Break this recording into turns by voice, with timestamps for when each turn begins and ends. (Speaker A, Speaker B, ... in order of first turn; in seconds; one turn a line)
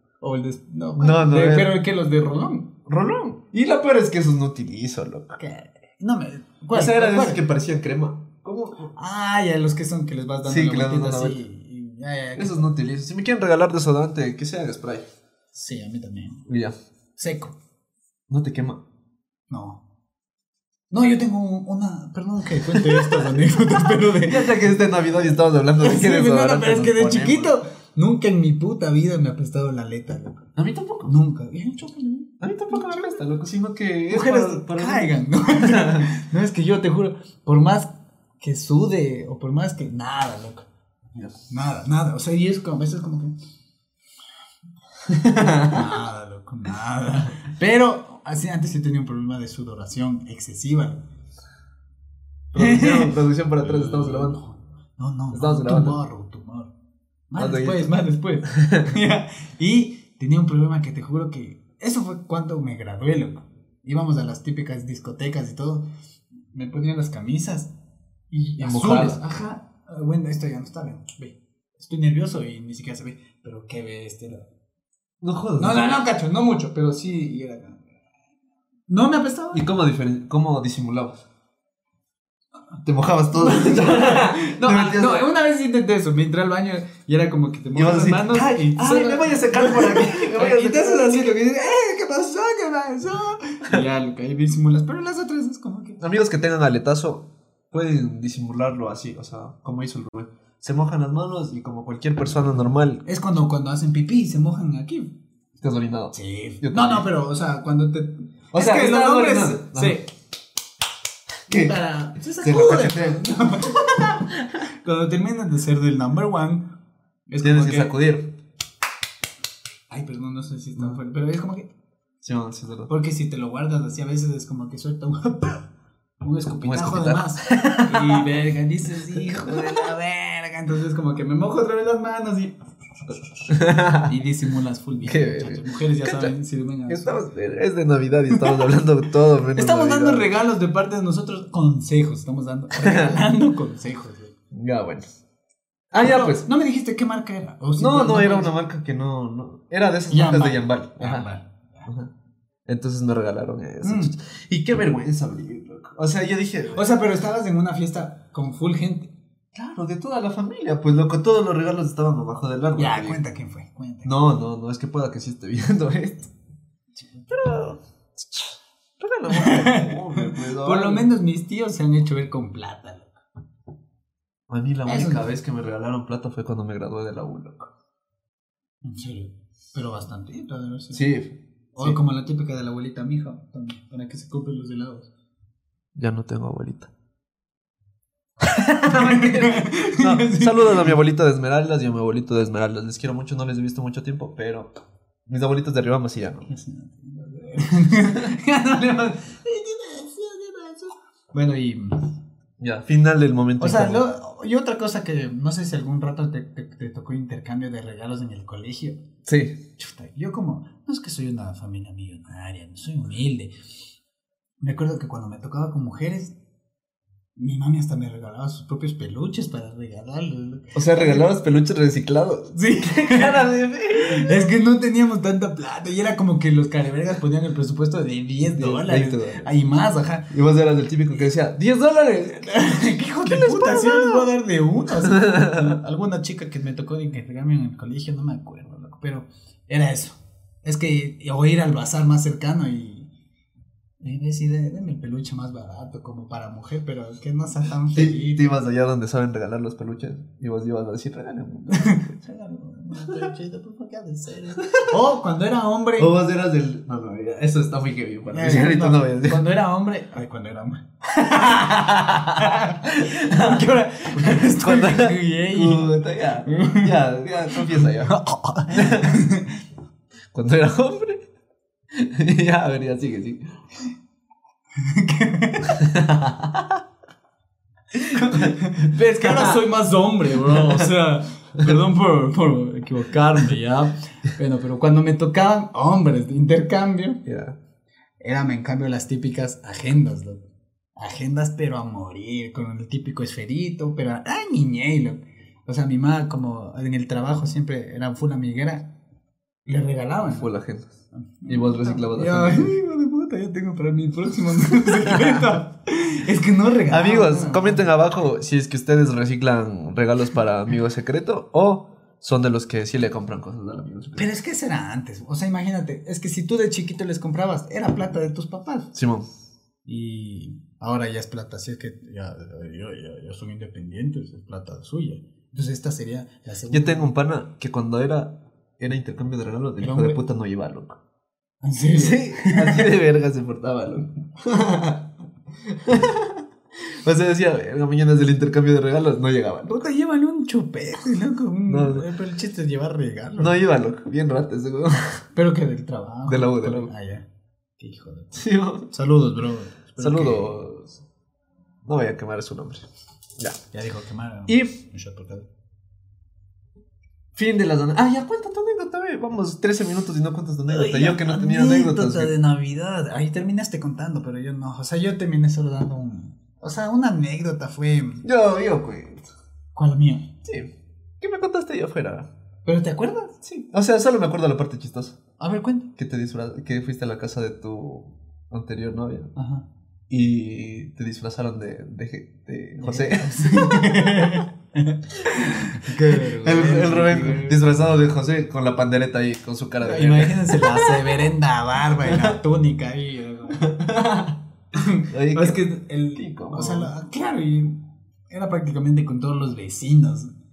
Speaker A: 0.2-2.8
Speaker B: 1.0-1.8
Speaker B: 2.9-5.4
Speaker A: 5.4-7.4
Speaker B: 6.7-8.9
Speaker A: 8.9-12.7
Speaker B: 10.4-11.4
Speaker B: 12.4-15.1
Speaker A: 15.5-16.5
Speaker B: 16.5-16.8
Speaker A: 17.2-17.6
Speaker B: 18.3-18.8
Speaker A: 19.5-19.8
Speaker A: 20.9-24.6
Speaker B: 22.8-23.3
Speaker B: 24.0-27.5
Speaker A: 25.8-30.4
Speaker B: 30.6-31.2
Speaker A: 31.1-33.2
Speaker B: 32.4-36.1
Speaker A: 34.1-40.7
Speaker A: 41.5-43.3
Speaker B: 45.1-45.9
Speaker A: 45.7-51.0
Speaker B: 52.5-54.4
Speaker A: 52.5-56.7
Speaker B: 55.3-56.0
Speaker A: 57.3-65.9
Speaker B: 57.4-57.9
Speaker B: 58.5-59.0
Speaker A: 66.5-67.7
Speaker A: 68.3-74.5
Speaker B: 68.6-69.2
Speaker B: 75.2-76.0
Speaker A: 75.6-77.8
Speaker A: 78.9-79.7
Speaker B: 79.5-81.2
Speaker B: 82.8-85.3
Speaker A: 83.3-96.0
Speaker B: 87.8-91.4
Speaker B: 96.0-103.0
Speaker A: 103.0-105.2
Speaker B: 105.6-107.1
Speaker A: 106.1-110.1
Speaker B: 108.5-110.0
Speaker B: 111.5-111.8
Speaker A: 111.5-116.7
Speaker B: 112.4-113.3
Speaker A: 117.3-117.9
Speaker B: 117.4-118.3
Speaker A: 119.9-121.7
Speaker B: 122.2-122.9
Speaker A: 122.9-125.7
Speaker A: 126.2-132.6
Speaker B: 126.6-128.3
Speaker B: 129.2-129.9
Speaker A: 133.1-137.2
Speaker B: 133.5-134.1
Speaker B: 135.0-136.3
Speaker B: 136.9-140.3
Speaker A: 139.6-144.3
Speaker B: 142.8-143.2
Speaker B: 144.5-145.0
Speaker B: 145.9-146.5
Speaker A: 146.0-148.5
Speaker B: 147.8-151.3
Speaker A: 150.1-151.9
Speaker B: 151.9-152.1
Speaker B: 152.7-156.8
Speaker A: 153.8-154.1
Speaker A: 156.7-159.1
Speaker B: 159.6-163.2
Speaker A: 162.8-164.1
Speaker B: 164.0-166.3
Speaker A: 167.0-167.3
Speaker B: 167.3-171.1
Speaker A: 169.3-173.1
Speaker B: 174.5-177.7
Speaker A: 174.9-175.3
Speaker A: 178.8-181.1
Speaker B: 180.9-182.0
Speaker A: 181.8-185.1
Speaker B: 185.9-186.9
Speaker A: 188.5-190.9
Speaker B: 188.8-194.7
Speaker B: 195.3-196.5
Speaker A: 196.5-202.0
Speaker B: 201.3-201.7
Speaker B: 202.6-204.0
Speaker A: 203.6-209.0
Speaker B: 209.3-209.6
Speaker A: 209.8-213.6
Speaker A: 214.6-216.4
Speaker A: 217.4-221.3
Speaker B: 220.8-224.5
Speaker A: 222.5-230.3
Speaker B: 228.5-229.5
Speaker B: 230.3-234.3
Speaker A: 232.4-243.1
Speaker B: 235.0-235.8
Speaker A: 244.0-248.5
Speaker B: 247.9-252.1
Speaker A: 251.7-256.1
Speaker B: 256.0-259.5
Speaker A: 258.3-266.9
Speaker B: 261.2-268.2
Speaker A: 267.5-269.6
Speaker B: 268.7-269.2
Speaker B: 270.3-271.2
Speaker B: 271.9-273.4
Speaker A: 274.8-275.8
Speaker B: 275.7-276.8
Speaker B: 277.9-279.6
Speaker A: 278.2-287.2
Speaker B: 280.5-280.9
Speaker B: 287.3-287.6
Speaker A: 288.2-290.4
Speaker A: 291.0-298.9
Speaker A: 299.7-300.5
Speaker B: 300.3-300.9
Speaker A: 301.1-307.9
Speaker B: 301.5-302.8
Speaker B: 304.8-305.4
Speaker B: 306.9-314.3
Speaker A: 314.1-318.9
Speaker B: 318.9-319.3
Speaker A: 319.9-327.1
Speaker B: 326.7-331.0
Speaker A: 329.8-330.2
Speaker A: 331.6-332.9
Speaker B: 331.9-335.1
Speaker B: 335.7-339.8
Speaker A: 339.6-343.6
Speaker B: 341.7-342.1
Speaker B: 343.4-345.2
Speaker A: 345.3-350.5
Speaker B: 346.3-346.9
Speaker B: 348.3-348.9
Speaker B: 350.0-351.0
Speaker B: 351.9-353.6
Speaker A: 353.7-355.5
Speaker B: 354.5-354.8
Speaker B: 357.4-362.3
Speaker A: 360.7-368.2
Speaker B: 368.2-369.3
Speaker A: 369.8-370.3
Speaker B: 370.4-372.3
Speaker A: 372.6-373.4
Speaker B: 373.4-375.2
Speaker A: 375.4-375.9
Speaker B: 376.0-379.3
Speaker A: 379.4-379.7
Speaker B: 380.1-384.4
Speaker A: 382.8-387.9
Speaker B: 385.8-391.2
Speaker A: 389.8-393.8
Speaker B: 392.0-392.4
Speaker B: 393.6-394.4
Speaker A: 394.7-400.3
Speaker B: 395.1-396.9